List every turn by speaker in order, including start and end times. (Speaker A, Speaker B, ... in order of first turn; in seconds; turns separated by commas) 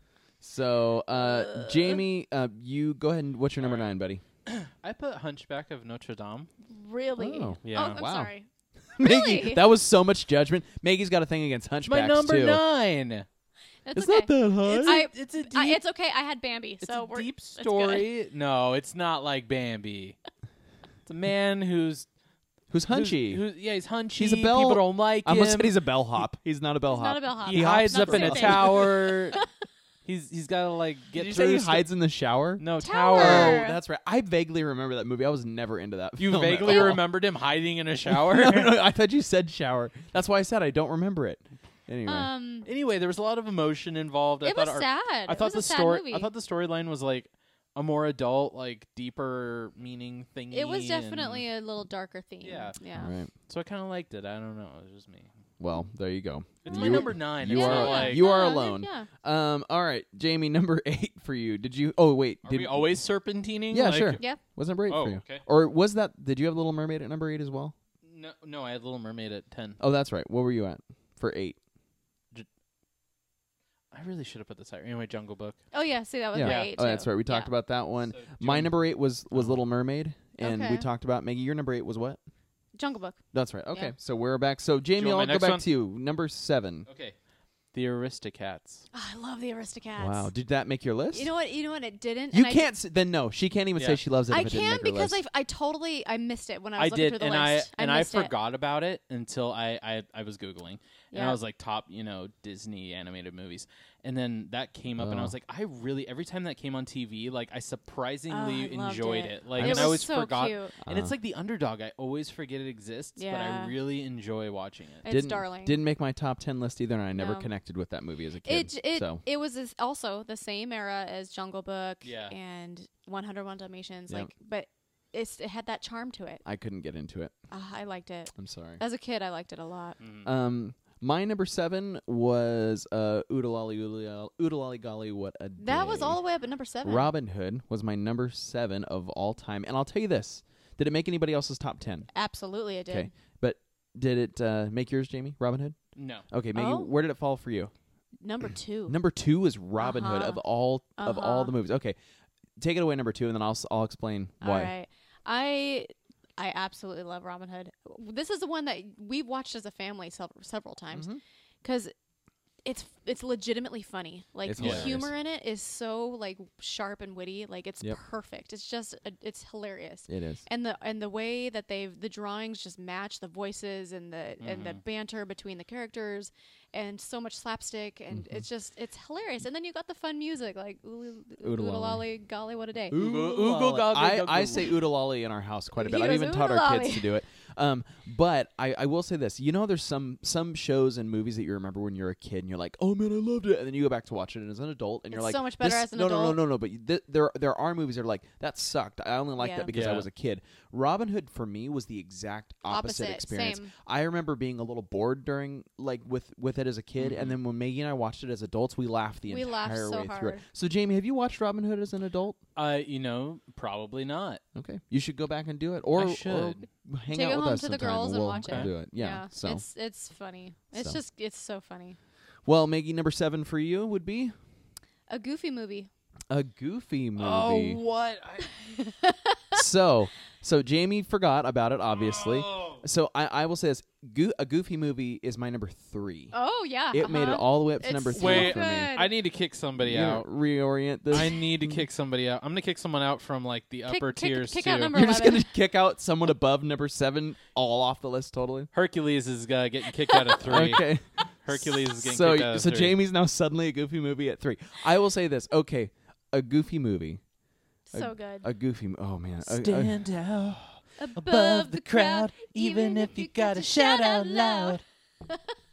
Speaker A: 0.4-4.2, Speaker B: 1.1-2.0, Speaker C: 3.6-3.9, Speaker C: 4.5-6.5, Speaker B: 6.7-8.5, Speaker A: 7.2-8.3, Speaker C: 7.6-8.0, Speaker A: 8.9-12.6, Speaker B: 9.0-9.6, Speaker C: 11.8-13.2, Speaker B: 13.8-18.1, Speaker A: 13.9-15.1, Speaker C: 14.6-15.8, Speaker C: 16.8-20.2, Speaker C: 21.1-22.1, Speaker A: 22.7-23.4, Speaker C: 22.9-25.8, Speaker A: 24.1-29.0, Speaker B: 26.9-29.5, Speaker C: 27.4-29.4, Speaker C: 30.0-31.9, Speaker A: 31.1-37.0, Speaker C: 32.6-33.6, Speaker B: 32.8-33.8, Speaker C: 36.2-38.8, Speaker B: 36.6-37.0, Speaker A: 38.0-42.3, Speaker B: 42.0-42.7, Speaker C: 42.6-51.5, Speaker B: 44.4-46.3, Speaker B: 50.5-53.1, Speaker C: 52.4-52.8, Speaker A: 53.0-53.3, Speaker C: 53.5-55.3, Speaker A: 55.6-62.9, Speaker C: 56.6-58.2, Speaker B: 56.7-59.1, Speaker C: 62.4-64.2, Speaker A: 63.7-67.7, Speaker C: 64.9-65.4, Speaker C: 68.0-69.8, Speaker A: 69.8-71.6, Speaker C: 73.9-75.6, Speaker B: 75.7-77.5, Speaker A: 76.3-82.2, Speaker C: 76.4-76.7, Speaker C: 78.1-78.8, Speaker C: 79.3-79.6, Speaker B: 80.4-80.8, Speaker B: 82.8-83.2, Speaker A: 83.3-86.9, Speaker C: 85.0-85.7, Speaker C: 86.9-87.1, Speaker C: 87.7-88.8, Speaker B: 88.9-90.3, Speaker A: 90.0-91.3, Speaker B: 91.1-92.7, Speaker A: 92.3-95.2, Speaker B: 94.3-98.3, Speaker C: 96.8-115.0, Speaker B: 101.1-101.4, Speaker A: 105.0-105.3, Speaker B: 108.3-110.7, Speaker A: 109.5-110.0, Speaker A: 110.8-111.2, Speaker B: 113.2-113.8, Speaker B: 115.0-115.8, Speaker A: 115.0-119.2, Speaker B: 117.2-117.5, Speaker B: 118.4-126.4, Speaker C: 122.0-122.3, Speaker A: 126.4-127.3, Speaker B: 127.5-130.0, Speaker A: 128.3-128.8, Speaker C: 130.0-130.3, Speaker A: 130.2-136.2, Speaker B: 135.6-137.1, Speaker A: 136.8-142.1, Speaker B: 142.1-143.1, Speaker A: 142.9-145.8, Speaker C: 145.9-146.3, Speaker A: 146.3-147.7, Speaker B: 146.5-146.9, Speaker B: 148.2-149.0, Speaker A: 148.9-151.9, Speaker B: 149.8-150.4, Speaker B: 150.9-151.5, Speaker A: 152.6-154.7, Speaker B: 154.4-161.1, Speaker A: 160.9-161.2, Speaker B: 161.6-161.9, Speaker B: 162.6-183.0, Speaker A: 164.4-165.1, Speaker C: 164.6-164.9, Speaker A: 170.1-170.4, Speaker C: 174.4-174.8, Speaker A: 178.1-178.4, Speaker A: 181.4-182.0, Speaker A: 182.9-212.4, Speaker C: 182.9-184.8, Speaker B: 185.8-187.2, Speaker B: 195.1-196.4, Speaker B: 199.4-199.7, Speaker C: 199.7-200.1, Speaker B: 202.7-203.7, Speaker C: 207.0-207.4, Speaker B: 209.3-210.4, Speaker C: 212.6-214.4, Speaker A: 214.6-219.6, Speaker C: 215.9-216.6, Speaker B: 217.1-222.0, Speaker C: 218.4-218.7, Speaker A: 220.7-221.0, Speaker A: 222.4-224.3, Speaker B: 225.1-225.9, Speaker A: 226.3-227.8, Speaker C: 227.2-228.8, Speaker B: 228.6-229.6, Speaker A: 229.5-236.3, Speaker C: 231.9-232.8, Speaker B: 236.3-239.1, Speaker A: 236.9-238.9, Speaker C: 238.1-240.3, Speaker A: 239.8-241.8, Speaker C: 241.1-245.2, Speaker B: 243.9-245.5, Speaker A: 244.9-248.7, Speaker C: 248.7-250.8, Speaker B: 250.1-250.4, Speaker A: 250.4-257.2, Speaker C: 251.4-252.9, Speaker B: 257.9-258.5, Speaker A: 257.9-260.6, Speaker C: 259.4-264.8, Speaker B: 261.0-265.4